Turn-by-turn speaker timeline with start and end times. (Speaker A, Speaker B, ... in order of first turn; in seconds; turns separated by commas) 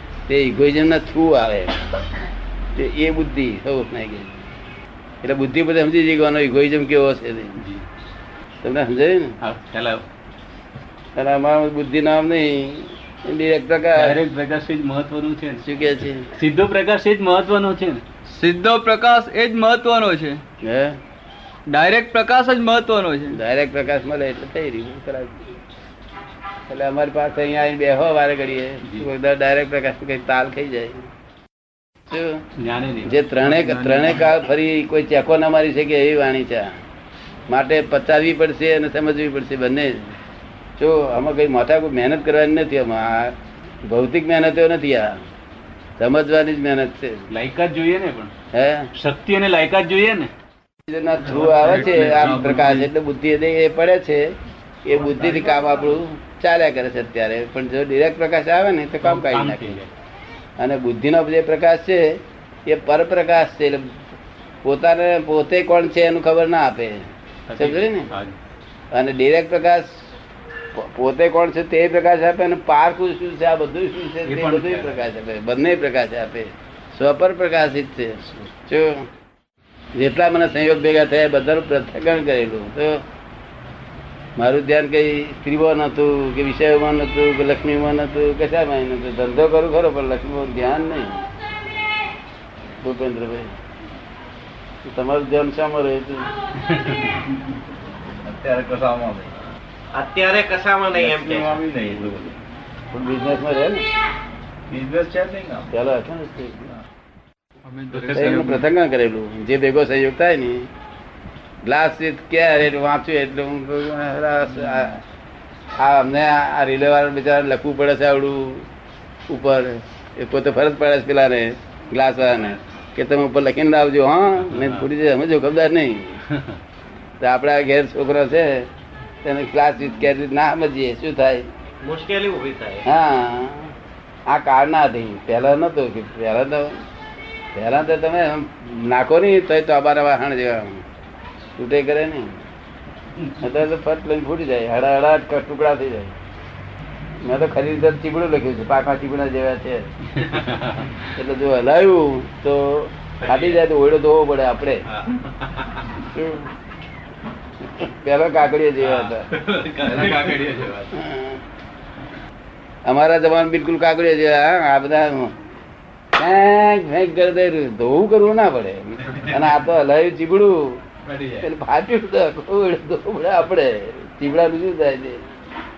Speaker A: 0.3-1.8, Speaker A: 2.8-4.4, Speaker A: 5.2-7.6, Speaker B: 7.6-7.9, Speaker A: 8.6-9.4, Speaker B: 9.4-10.0, Speaker A: 11.2-14.2, Speaker B: 14.0-15.6, Speaker A: 15.6-16.3, Speaker B: 16.3-18.0, Speaker C: 18.3-20.4, Speaker A: 20.6-21.0, Speaker C: 21.7-23.4, Speaker A: 23.3-25.5, Speaker A: 26.7-31.1, Speaker A: 32.1-32.4, Speaker B: 32.6-33.2, Speaker A: 33.0-36.7, Speaker C: 33.5-34.1, Speaker A: 37.5-40.1, Speaker A: 40.8-43.3, Speaker A: 43.9-45.2, Speaker A: 46.0-47.3, Speaker B: 47.3-48.3, Speaker A: 48.5-48.9, Speaker B: 49.0-50.3, Speaker A: 50.9-54.3, Speaker D: 51.5-52.3, Speaker B: 51.8-52.8, Speaker C: 52.1-52.6, Speaker A: 54.9-59.8, Speaker B: 59.0-59.9, Speaker A: 60.6-64.0, Speaker A: 64.6-67.0, Speaker B: 67.5-68.4, Speaker A: 67.6-68.1, Speaker A: 68.9-70.0, Speaker A: 70.8-79.1, Speaker B: 74.2-75.0, Speaker A: 80.0-83.0, Speaker A: 84.4-91.2, Speaker A: 92.8-93.5, Speaker A: 94.8-96.3, Speaker B: 96.7-97.2, Speaker D: 98.2-99.3, Speaker E: 100.0-101.5, Speaker D: 100.9-102.3, Speaker A: 102.9-103.8, Speaker D: 104.7-105.7, Speaker A: 105.7-106.7, Speaker C: 107.7-108.6, Speaker B: 107.9-108.6, Speaker A: 108.1-110.7, Speaker A: 111.6-115.0, Speaker A: 115.8-118.7, Speaker A: 119.3-126.2, Speaker B: 124.4-124.9, Speaker B: 126.3-126.6, Speaker A: 127.2-128.7, Speaker A: 129.2-131.4, Speaker E: 131.8-132.8, Speaker A: 132.8-133.7, Speaker A: 134.3-136.8, Speaker A: 137.6-140.8, Speaker A: 141.6-142.3, Speaker A: 143.4-146.1, Speaker A: 147.2-149.9, Speaker B: 150.1-150.9, Speaker A: 151.2-154.8, Speaker B: 153.2-153.6, Speaker A: 156.0-156.5, Speaker A: 157.8-159.3, Speaker B: 158.8-160.9, Speaker D: 159.9-160.5, Speaker A: 160.9-161.4, Speaker A: 162.8-165.3, Speaker A: 166.2-170.8, Speaker B: 171.1-171.5, Speaker A: 171.4-175.2